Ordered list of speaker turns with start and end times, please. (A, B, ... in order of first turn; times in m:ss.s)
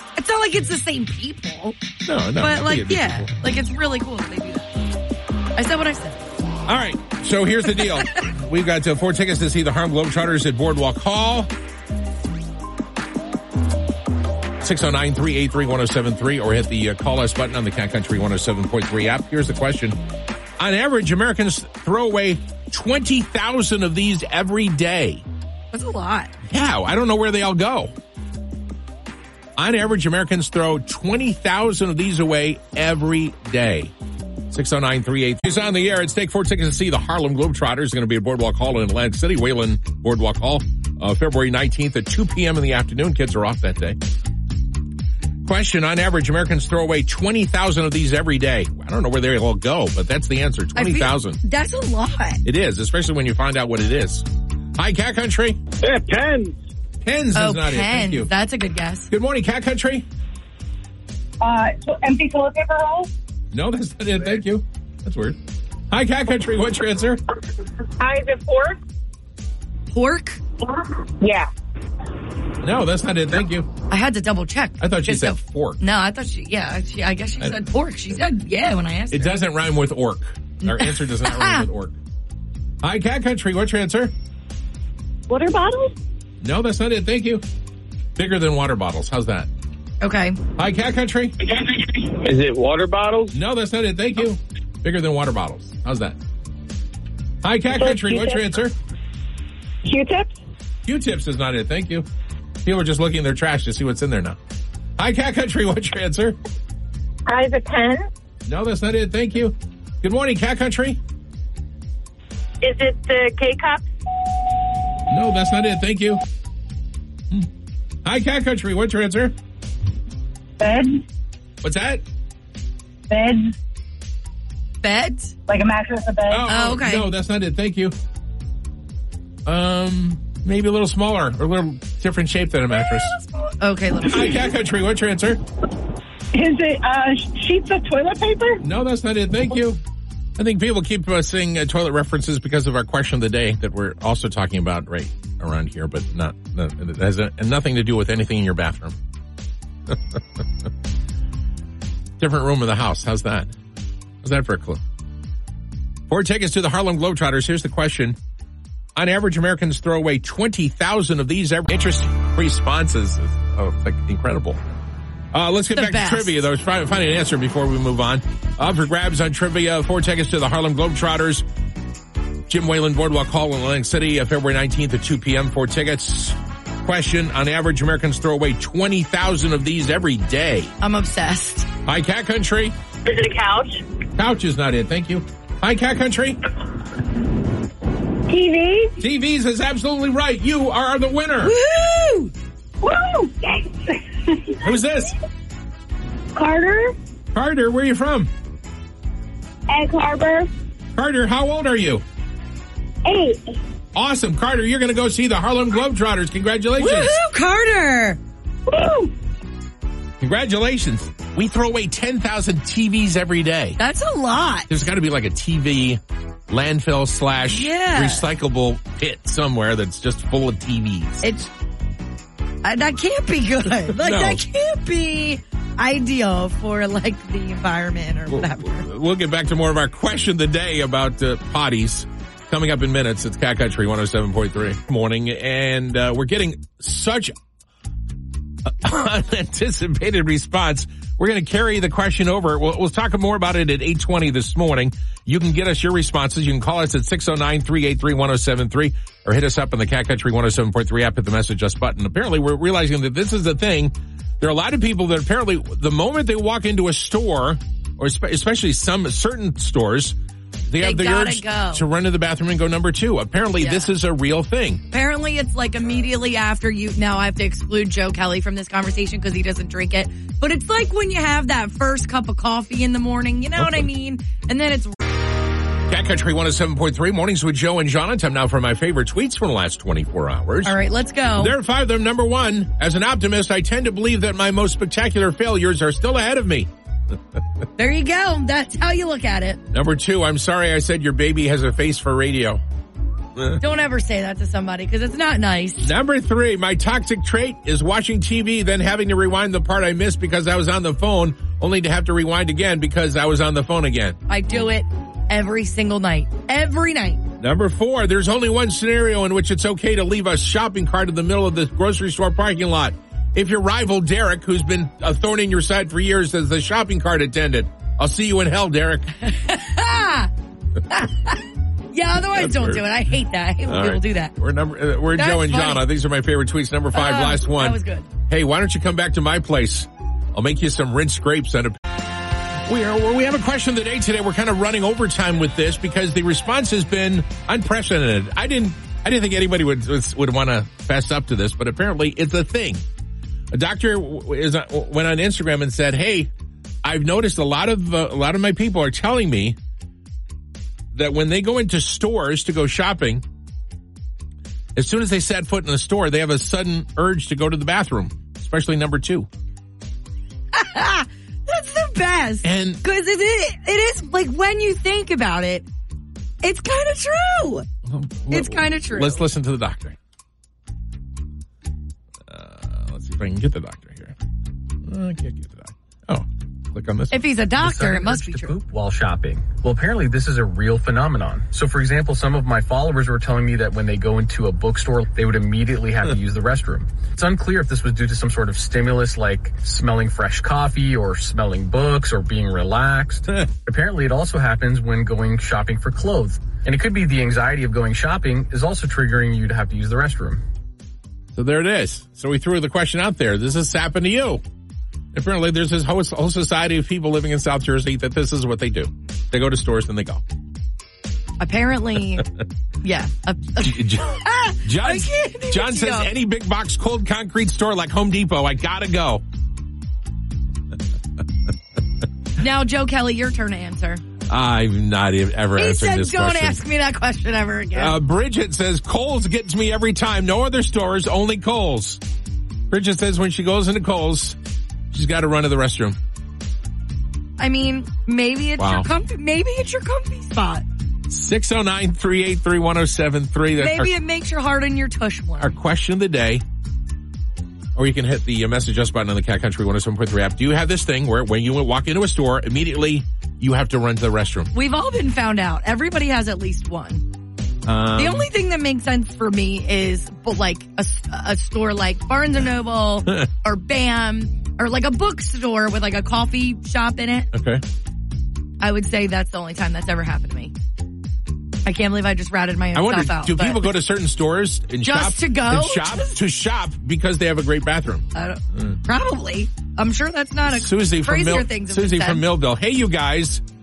0:00.2-0:01.8 A
0:02.0-0:03.3 B
0:02.4-0:04.7 A
0:05.6-0:06.2 A
0:06.7-0:11.5 B
0:07.7-0:08.2 A
0:14.6-0:20.0 B
0:20.6-0:25.2 B
0:25.7-0:26.3 A
0:26.5-0:27.9 B
0:29.6-0:33.9 B
0:34.5-0:44.0 B
0:45.4-0:51.4 B
0:50.8-0:52.4 A
0:52.4-0:55.6 B
0:55.8-0:56.6 C
0:57.0-0:58.3 B
0:57.3-0:59.1 A
0:59.1-1:00.0 B
1:01.4-1:03.1 D
1:03.5-1:05.4 B
1:05.9-1:07.2 B
1:08.0-1:08.8 D
1:09.9-1:10.4 A
1:10.7-1:11.5 D
1:12.6-1:13.7 B
1:13.9-1:19.4 A
1:14.8-1:15.8 B
1:19.1-1:22.0 B
1:20.7-1:21.6 A
1:22.8-1:24.1 B
1:25.3-1:25.9 D
1:26.4-1:27.4 B
1:28.2-1:29.5 B
1:30.0-1:30.4 A
1:30.6-1:31.4 B
1:31.6-1:33.3 C
1:33.3-1:36.2 B
1:37.4-1:38.7 B
1:37.7-1:38.6 D
1:39.8-1:40.4 D
1:40.8-1:42.0 B
1:42.6-1:44.4 B
1:45.0-1:46.4 B
1:47.3-1:48.0 D
1:48.4-1:51.0 B
1:52.6-1:53.8 D
1:55.1-1:56.2 B
1:58.0-1:59.3 B
2:00.6-2:01.0 D
2:01.6-2:02.0 B
2:03.1-2:03.5 D
2:04.8-2:05.3 A
2:05.5-2:06.5 D
2:06.3-2:07.9 B
2:06.5-2:07.1 A
2:09.4-2:13.2 B
2:13.4-2:14.5 A
2:14.0-2:15.4 B
2:16.3-2:18.6 D
2:18.6-2:19.8 B
2:20.4-2:29.0 B
2:29.9-2:30.2 B
2:32.2-2:33.5 B
2:34.2-2:34.8 B
2:36.1-2:38.2 B
2:39.0-2:44.6 B
2:45.3-2:51.4 B
2:45.7-2:46.3 A
2:52.5-3:00.7 B
3:00.8-3:01.7 A
3:01.8-3:02.8 B
3:03.0-3:03.8 D
3:04.2-3:06.4 B
3:08.3-3:09.0 D
3:09.0-3:11.5 B
3:11.4-3:12.3 A
3:12.8-3:14.7 D
3:14.6-3:15.1 B
3:16.3-3:17.0 D
3:17.3-3:18.3 B
3:19.7-3:20.5 D
3:21.0-3:22.0 B
3:23.0-3:23.6 D
3:23.9-3:27.2 B
3:26.8-3:28.2 A
3:28.7-3:29.1 D
3:30.2-3:33.8 B
3:33.8-3:34.7 A
3:34.7-3:41.2 B
3:37.5-3:38.3 A
3:41.2-3:41.5 A
3:42.6-3:48.9 A
3:43.9-3:44.4 B
3:48.3-3:57.3 B
3:58.6-4:20.2 B
4:20.7-4:24.8 B
4:20.8-4:21.8 A
4:23.6-4:23.9 A
4:24.9-4:35.0 A
4:33.6-4:33.9 B
4:35.9-4:40.7 B
4:40.6-4:41.5 A
4:41.4-4:46.7 B
4:47.8-4:49.6 A
4:49.7-4:52.6 B
4:53.4-4:53.6 B
4:53.6-4:55.9 A
4:55.8-5:04.2 B
5:04.3-5:07.3 A
5:07.4-5:19.2 B
5:19.2-5:20.3 A
5:20.9-5:24.3 A
5:22.3-5:22.8 B
5:23.6-5:31.9 B
5:25.1-5:25.9 A
5:26.9-5:28.1 A
5:32.6-5:42.8 B
5:43.5-5:46.3 B
5:46.8-5:49.6 B
5:50.9-5:53.2 B
5:54.7-5:59.3 B
6:00.5-6:05.6 A
6:02.4-6:02.8 B
6:06.4-6:07.7 A
6:07.8-6:10.0 B
6:08.3-6:09.2 A
6:12.3-6:14.1 B
6:14.8-6:17.2 B
6:17.1-6:18.5 A
6:17.6-6:40.4 E
6:41.3-6:44.4 B
6:45.1-6:50.2 B
6:51.4-6:52.3 A
6:52.8-6:56.1 A
6:53.6-6:59.2 B
7:02.4-7:04.0 A
7:04.3-7:06.6 B
7:05.6-7:08.0 A
7:07.7-7:12.0 B
7:12.7-7:14.4 B
7:14.9-7:16.0 B
7:17.4-7:20.6 A
7:18.6-7:18.9 B
7:21.1-7:23.9 B
7:23.6-7:25.5 A
7:25.4-7:26.4 B
7:27.8-7:34.5 B
7:34.5-7:37.1 A
7:37.6-7:38.3 B
7:38.0-7:47.3 A
7:47.3-7:47.6 B
7:48.6-7:50.5 A
7:51.6-7:53.7 A
7:52.7-7:58.8 B
7:54.8-7:56.2 A
7:58.1-8:02.2 A
8:00.5-8:03.4 B